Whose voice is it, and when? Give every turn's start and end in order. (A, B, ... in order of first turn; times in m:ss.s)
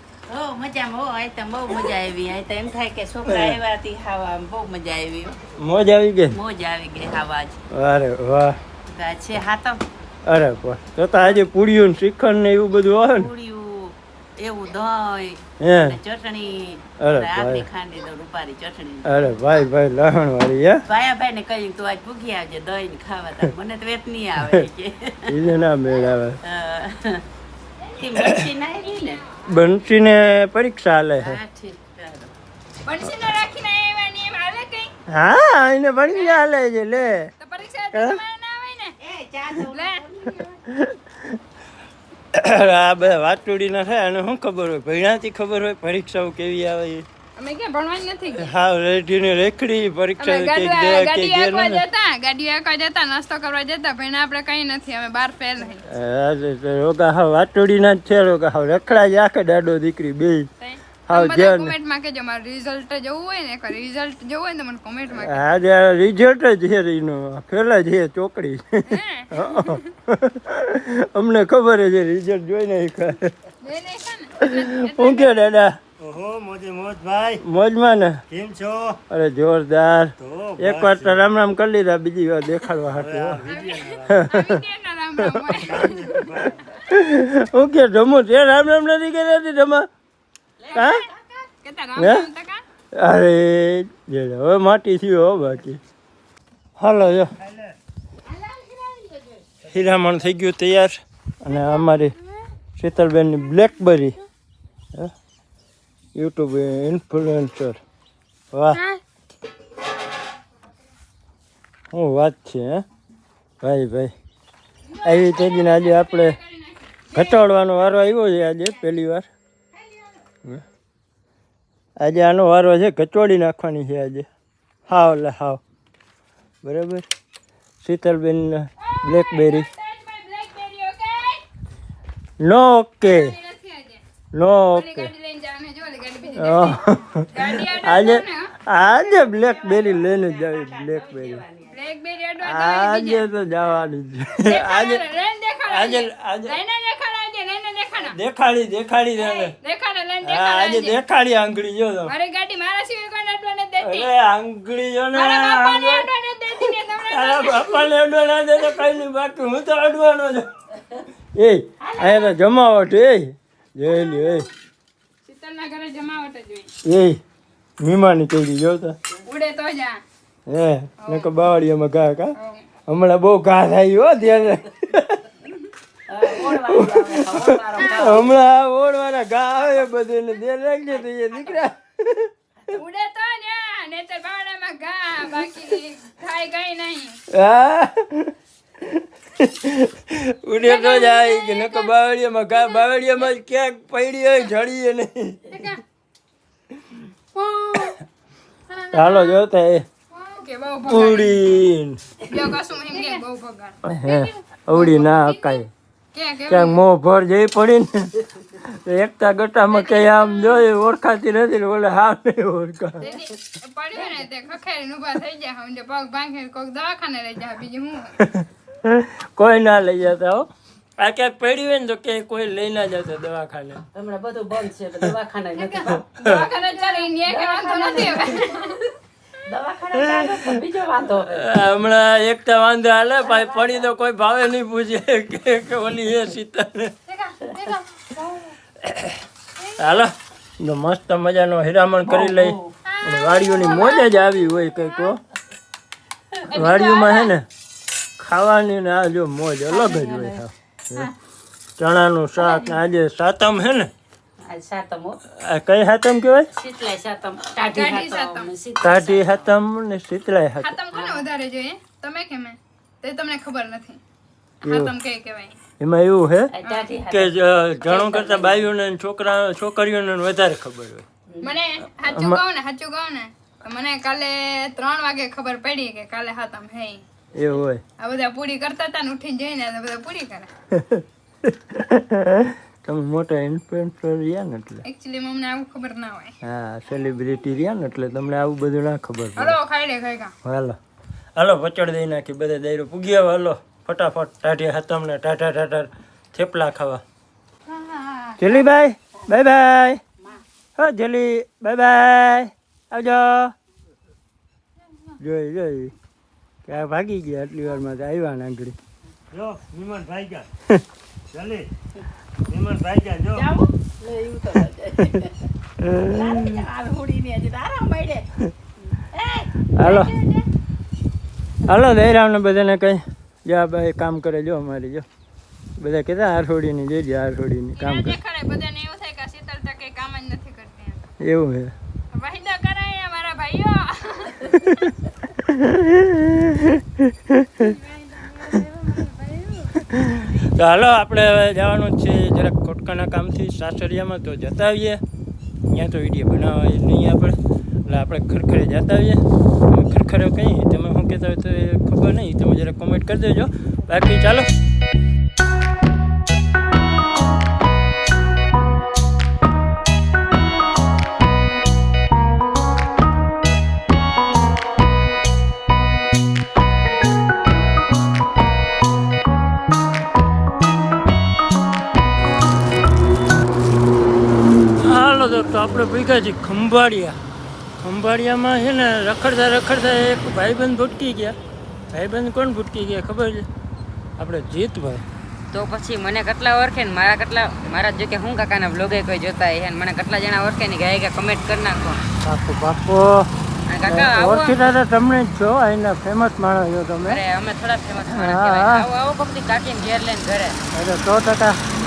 0:00.3-0:05.4 A
0:03.3-0:03.6 B
0:05.6-0:06.4 B
0:06.3-0:07.6 A
0:07.7-0:08.6 B
0:08.9-0:09.8 A
0:10.3-0:13.3 B
0:13.1-0:19.1 A
0:15.6-0:16.0 B
0:17.0-0:17.7 B
0:19.0-0:20.8 B
0:20.9-0:25.3 A
0:24.4-0:24.7 B
0:25.3-0:26.4 B
0:26.5-0:27.2 A
0:27.9-0:29.2 A
0:29.4-0:31.4 B
0:31.2-0:32.3 A
0:32.8-0:34.9 C
0:35.1-0:37.3 B
0:36.1-0:36.4 C
0:37.4-0:39.0 C
0:37.9-0:38.2 B
0:39.0-0:40.4 A
0:39.6-0:40.5 C
0:40.7-0:41.2 B
0:42.3-0:47.1 B
0:47.4-0:48.5 C
0:48.4-0:51.8 B
0:50.2-0:55.8 C
0:55.9-1:00.5 B
1:00.6-1:05.4 C
1:01.1-1:01.8 B
1:05.2-1:13.3 B
1:08.9-1:09.8 C
1:13.6-1:15.4 C
1:14.4-1:15.8 B
1:16.0-1:17.4 D
1:17.4-1:18.2 B
1:18.3-1:19.0 D
1:19.1-1:23.4 B
1:20.2-1:21.2 D
1:23.0-1:24.2 D
1:23.5-1:26.4 C
1:24.1-1:24.6 B
1:25.7-1:26.5 D
1:26.8-1:29.9 B
1:30.6-1:31.4 A
1:30.7-1:31.0 C
1:30.7-1:31.0 B
1:31.6-1:32.6 C
1:32.0-1:32.3 B
1:33.0-1:35.8 B
1:36.8-1:37.3 B
1:38.3-1:39.4 A
1:39.6-1:42.1 B
1:42.8-1:44.2 B
1:46.2-1:47.8 B
1:48.5-1:48.8 B
1:51.9-1:52.8 B
1:53.6-1:54.1 B
1:54.9-1:57.4 C
1:55.0-1:56.4 B
1:57.1-1:59.3 B
2:02.0-2:04.3 B
2:04.9-2:05.6 B
2:06.6-2:07.0 B
2:07.8-2:09.7 B
2:08.8-2:11.4 C
2:12.4-2:13.3 B
2:13.1-2:14.0 C
2:14.3-2:15.1 B
2:14.7-2:18.5 C
2:16.4-2:21.4 B
2:19.1-2:21.8 A
2:21.7-2:23.3 C
2:22.4-2:25.0 B
2:24.4-2:28.2 C
2:25.7-2:26.6 B
2:28.1-2:29.6 B
2:29.2-2:31.0 C
2:30.2-2:32.1 B
2:32.1-2:34.1 C
2:33.8-2:36.1 B
2:35.1-2:37.9 C
2:37.1-2:40.5 B
2:41.4-2:44.5 B
2:41.8-2:42.3 A
2:43.8-2:44.5 C
2:45.2-2:46.7 C
2:46.8-2:47.2 B
2:47.8-2:49.0 B
2:49.2-2:50.0 C
2:50.5-2:52.4 B
2:51.0-2:51.3 C
2:52.4-2:52.6 C
2:52.9-2:55.3 B
2:56.1-2:58.3 A
2:56.3-3:02.3 B
2:57.8-2:58.2 C
3:02.7-3:07.2 C
3:07.3-3:15.5 B
3:10.6-3:11.9 C
3:12.5-3:13.3 C
3:15.5-3:15.8 C
3:17.4-3:18.0 C
3:18.9-3:19.9 B
3:19.0-3:19.3 C
3:20.1-3:21.7 C
3:20.9-3:22.0 B
3:22.3-3:25.6 C
3:23.8-3:25.7 B
3:26.1-3:26.8 C
3:26.5-3:33.1 B
3:29.7-3:30.7 C
3:33.0-3:38.1 C
3:38.2-3:43.8 B
3:43.9-3:46.0 A
3:45.6-3:48.9 C
3:45.9-3:46.4 B
3:46.6-3:48.7 A
3:49.5-3:51.5 A
3:50.2-3:50.4 B
3:51.2-3:56.9 B
3:53.2-3:53.9 A
3:57.1-3:57.9 C
3:58.8-3:59.2 B
3:59.8-4:05.2 B
4:02.1-4:02.8 A
4:03.0-4:05.0 C
4:06.5-4:07.3 C
4:06.5-4:07.5 B
4:08.2-4:11.1 B
4:09.7-4:10.4 A
4:11.8-4:13.9 B
4:12.4-4:12.8 C
4:14.4-4:15.2 A
4:15.3-4:16.5 B
4:16.5-4:19.5 A
4:17.7-4:18.5 C
4:18.8-4:20.8 B
4:20.6-4:24.0 C
4:20.9-4:21.3 A
4:24.6-4:24.9 B
4:24.7-4:25.6 C
4:25.8-4:26.5 B
4:26.5-4:28.7 A
4:26.6-4:26.9 C
4:27.1-4:31.1 B
4:31.3-4:31.5 A
4:31.4-4:37.0 C
4:32.1-4:32.4 B
4:37.4-4:37.8 B
4:38.0-4:40.5 C
4:40.7-4:44.8 B
4:44.8-4:46.3 C
4:46.4-4:49.6 B
4:49.4-4:50.3 C
4:50.4-4:50.8 B
4:51.4-4:57.0 B
4:57.7-4:58.6 C
4:58.4-5:00.0 B
5:00.8-5:03.6 B
5:05.2-5:05.9 B
5:06.7-5:08.8 B
5:09.3-5:10.5 D
5:11.3-5:11.7 D
5:12.5-5:13.5 D
5:13.3-5:15.5 A
5:15.8-5:16.6 B
5:16.0-5:18.3 A
5:18.9-5:20.5 A
5:19.7-5:20.1 B
5:21.6-5:25.1 B
5:25.8-5:28.2 B
5:27.8-5:31.0 C
5:31.2-5:31.7 B
5:32.1-5:35.0 C
5:35.3-5:37.7 B
5:37.6-5:39.7 C
5:39.8-5:45.0 B
5:45.6-5:54.5 B
6:14.8-6:17.2 B
6:17.8-6:21.4 B
6:21.9-6:23.5 B
6:24.2-6:25.0 B
6:25.5-6:32.0 E
6:32.2-6:33.3 B
6:33.7-6:34.7 E
6:33.8-6:37.2 B
6:37.1-6:40.6 E
6:38.0-6:38.9 B
6:40.7-6:41.6 B